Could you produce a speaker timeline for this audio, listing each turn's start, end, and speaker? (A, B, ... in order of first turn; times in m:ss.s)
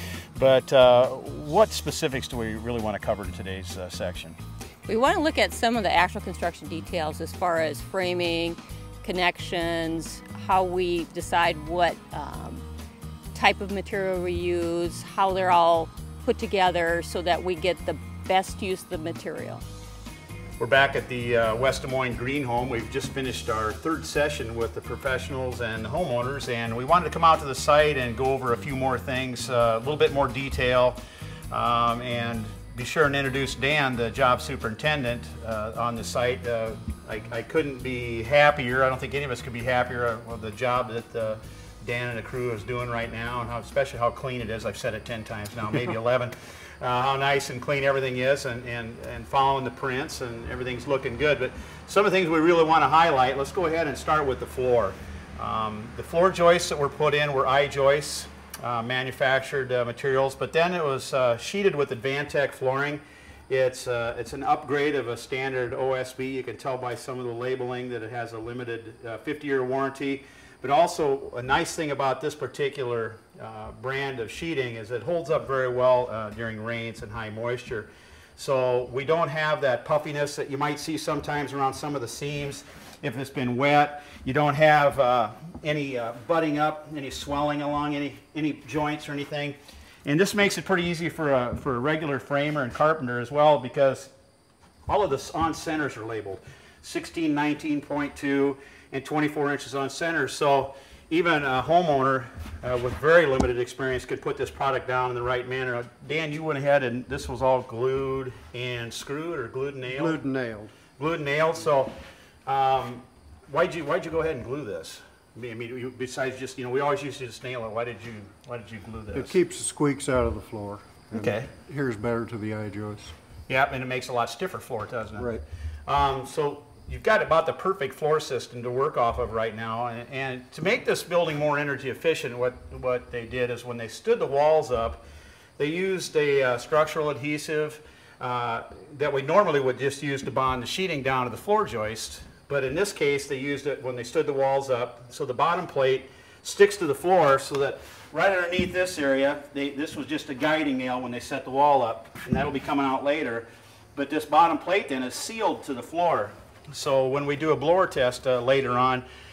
0:00.4-0:04.4 A
0:04.8-0:12.6 B
0:13.3-0:19.6 B
0:20.6-0:31.0 A
0:31.5-1:34.1 A
1:34.9-1:50.2 A
1:49.9-1:50.7 C
1:51.0-1:51.9 A
1:52.4-1:59.4 A
1:59.1-2:03.1 C
2:01.1-2:01.5 A
2:03.5-2:05.3 A
2:05.2-2:05.4 C
2:05.9-2:15.0 A
2:15.6-2:39.0 A